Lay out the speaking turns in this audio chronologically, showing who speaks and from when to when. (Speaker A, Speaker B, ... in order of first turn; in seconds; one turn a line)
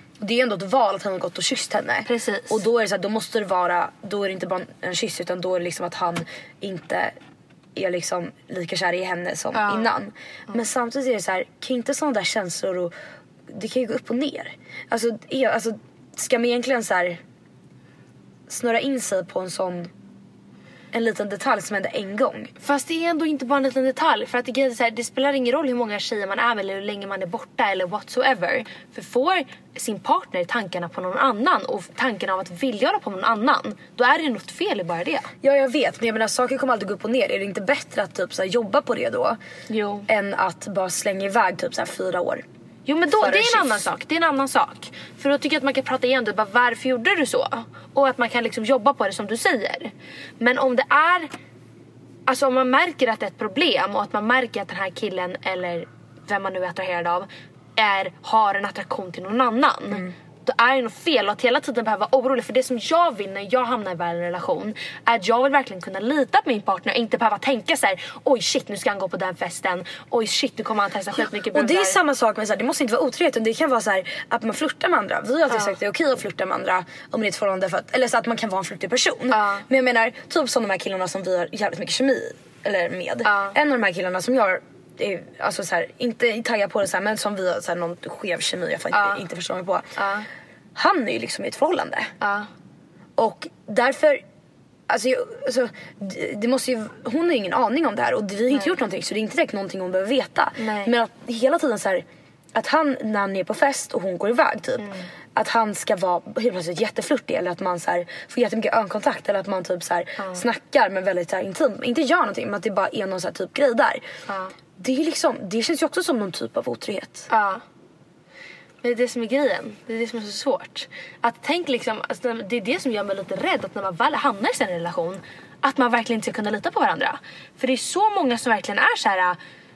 Speaker A: 0.2-7.1
Speaker B: 2.1-2.6
Speaker A: 7.7-12.9
Speaker B: 9.5-9.9
Speaker A: 13.5-17.2
Speaker A: 18.5-19.9
Speaker A: 20.9-22.5
Speaker B: 22.6-35.3
Speaker A: 35.4-39.4
Speaker B: 39.7-40.1
Speaker A: 40.1-42.4
Speaker B: 42.9-51.3
Speaker A: 43.1-43.9
Speaker B: 52.3-72.0
Speaker A: 71.2-89.9
Speaker B: 75.5-75.7
Speaker B: 79.3-79.6
Speaker B: 83.2-83.5
Speaker B: 88.9-89.2
Speaker B: 90.0-90.3
Speaker A: 90.8-92.1
Speaker B: 92.2-92.5
Speaker A: 93.2-94.2
Speaker A: 94.9-114.0
Speaker B: 100.6-100.9
Speaker B: 104.8-105.1
Speaker B: 114.3-114.5
Speaker A: 114.8-117.3
Speaker B: 117.3-117.6
Speaker B: 118.8-129.4